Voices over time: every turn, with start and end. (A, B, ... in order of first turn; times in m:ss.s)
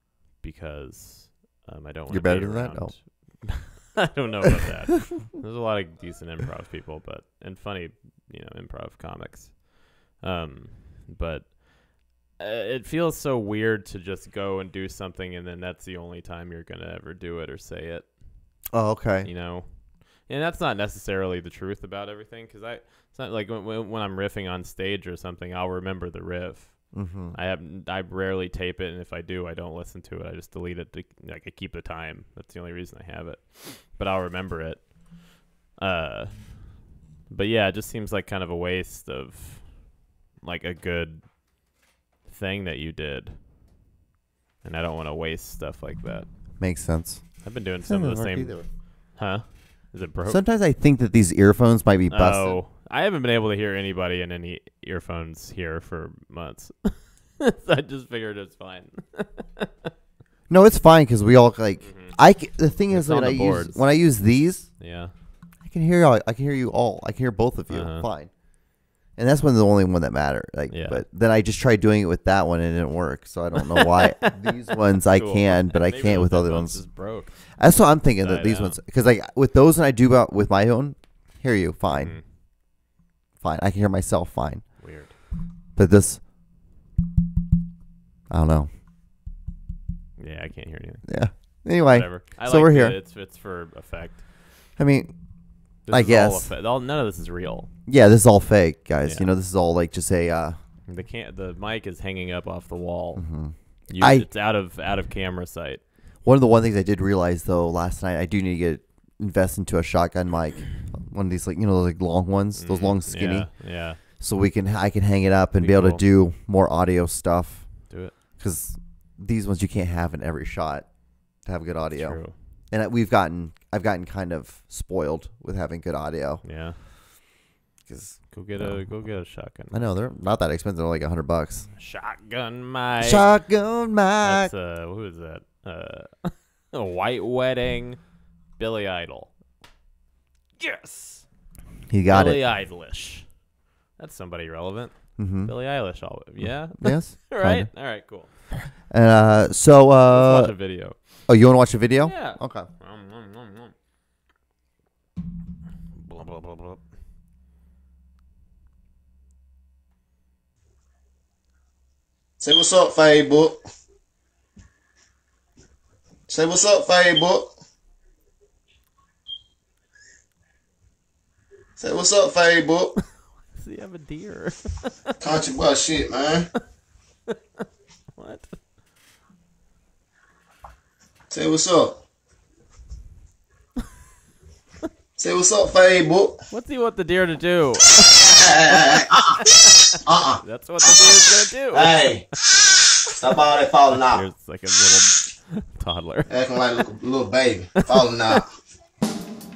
0:00.4-0:18.5 A
0:02.1-0:03.4 B
0:18.7-0:19.3 B
0:19.2-0:41.3 A
0:26.9-0:27.4 B
0:42.3-0:43.4 A
0:44.6-0:46.3 A
0:46.6-0:48.7 B
0:47.4-0:50.4 A
0:50.3-0:52.6 B
0:52.1-0:59.9 A
1:00.5-1:04.7 B
1:01.8-1:02.2 A
1:02.8-1:03.9 A
1:04.8-1:05.1 A
1:05.6-1:08.4 B
1:07.7-1:08.1 A
1:09.2-1:22.2 B
1:10.7-1:11.0 A
1:15.1-1:17.6 A
1:18.2-1:18.8 A
1:21.9-1:22.2 A
1:23.4-1:24.8 B
1:24.8-1:25.1 A
1:25.8-1:26.3 B
1:28.3-1:28.7 B
1:30.2-1:34.2 A
1:31.0-1:33.0 B
1:34.8-1:36.5 B
1:35.8-1:37.7 A
1:37.9-1:40.6 B
1:39.0-1:39.3 A
1:40.9-1:45.8 A
1:43.2-1:44.3 B
1:46.2-2:06.4 B
1:52.6-1:54.0 A
1:55.6-1:56.0 A
1:57.9-1:58.1 A
2:02.0-2:02.3 A
2:06.4-2:06.8 A
2:07.9-2:09.0 B
2:08.3-2:09.8 A
2:09.7-2:11.7 B
2:11.8-2:13.3 A
2:13.0-2:14.5 B
2:14.2-2:18.0 A
2:18.6-2:19.3 A
2:20.6-2:21.2 A
2:21.9-2:22.4 B
2:22.1-2:28.4 A
2:25.2-2:25.6 B
2:26.4-2:30.6 B
2:30.1-2:31.2 A
2:31.2-2:32.7 B
2:32.0-2:33.7 A
2:36.0-2:36.8 A
2:42.4-2:43.6 C
2:46.3-2:47.5 C
2:51.8-2:53.0 C
2:53.5-2:55.2 A
2:55.2-2:56.5 C
2:58.2-2:58.6 A
3:01.3-3:02.0 C
3:05.2-3:06.4 C
3:06.5-3:12.6 A
3:08.1-3:09.4 C
3:10.0-3:12.3 C
3:13.1-3:14.2 C
3:14.1-3:16.4 A
3:16.3-3:18.5 C